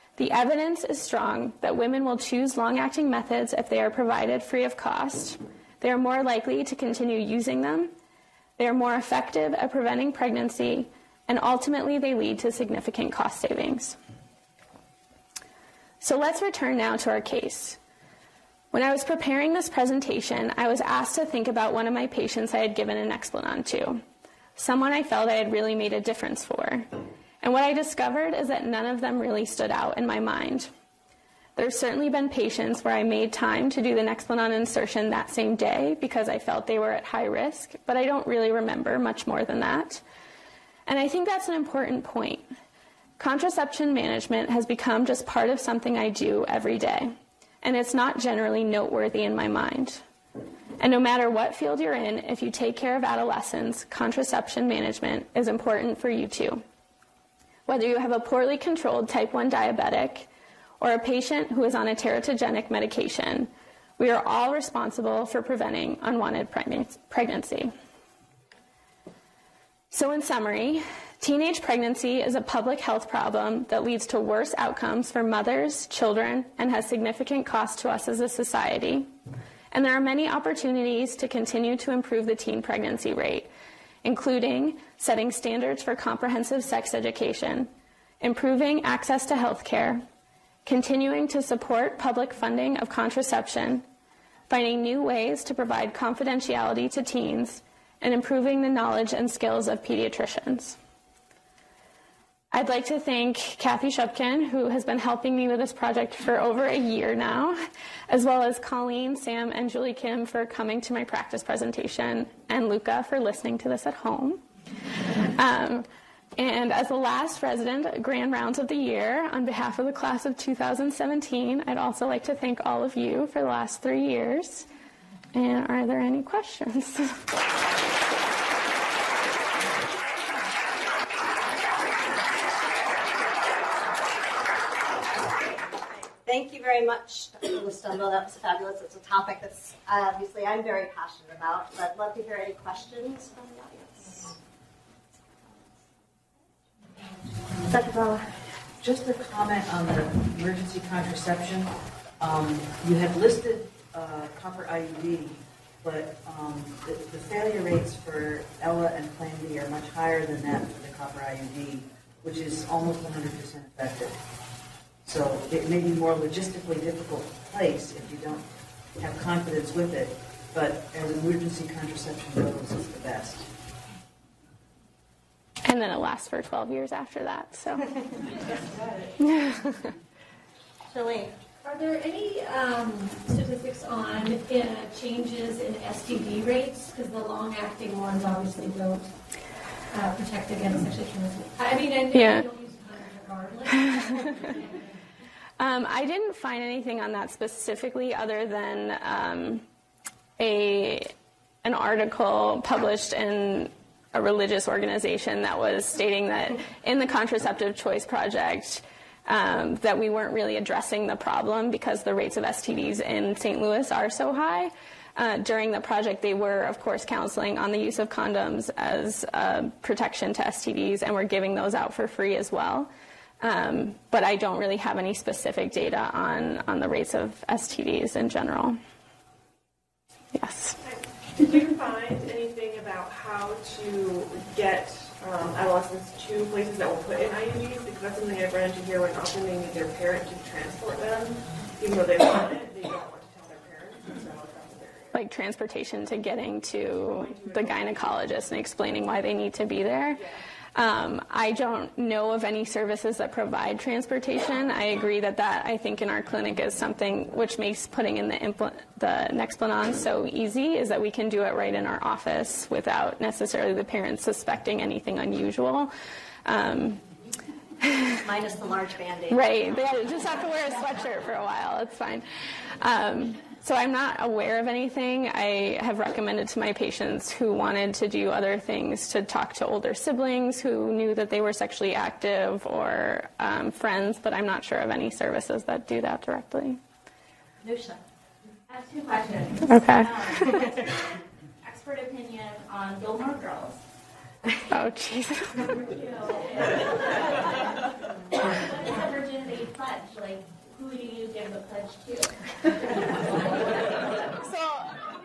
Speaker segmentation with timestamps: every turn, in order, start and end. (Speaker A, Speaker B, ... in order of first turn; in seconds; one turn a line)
Speaker A: 0.2-7.9
Speaker A: 8.6-13.9
Speaker A: 16.0-17.8
Speaker A: 18.7-24.0
Speaker A: 24.6-26.9
Speaker A: 27.4-30.7
Speaker A: 31.6-40.0
Speaker A: 40.9-42.4
Speaker A: 43.2-50.0
Speaker A: 50.8-56.6
Speaker A: 57.7-60.3
Speaker A: 60.8-67.7
Speaker A: 69.9-79.1
Speaker A: 79.7-83.5
Speaker A: 84.0-87.7
Speaker A: 88.2-90.0
Speaker A: 90.6-93.8
Speaker A: 94.5-100.8
Speaker A: 102.5-107.6
Speaker A: 108.1-114.4
Speaker A: 115.3-124.7
Speaker A: 125.3-127.2
Speaker B: 135.5-144.3
Speaker C: 147.7-148.2
Speaker C: 148.8-164.2
Speaker C: 165.0-173.5
Speaker A: 175.6-177.9
Speaker D: 178.2-179.2
Speaker B: 180.9-181.3
Speaker E: 181.6-189.1
Speaker E: 189.9-194.9
Speaker A: 192.1-192.4
Speaker A: 195.6-199.6
Speaker A: 200.4-201.1
Speaker A: 201.6-222.9
Speaker A: 223.4-228.8
Speaker A: 230.3-230.8
Speaker D: 230.8-245.1
Speaker A: 245.1-250.2
Speaker D: 247.1-248.1
Speaker A: 250.7-265.9
Speaker A: 266.4-267.0
Speaker B: 268.2-269.5
Speaker A: 269.3-272.2
Speaker A: 272.8-286.8
Speaker F: 287.6-288.0
Speaker F: 288.7-291.1
Speaker A: 289.7-290.6
Speaker F: 291.6-293.8
Speaker A: 294.7-295.6
Speaker F: 295.6-297.8
Speaker F: 298.3-304.1
Speaker A: 304.4-304.9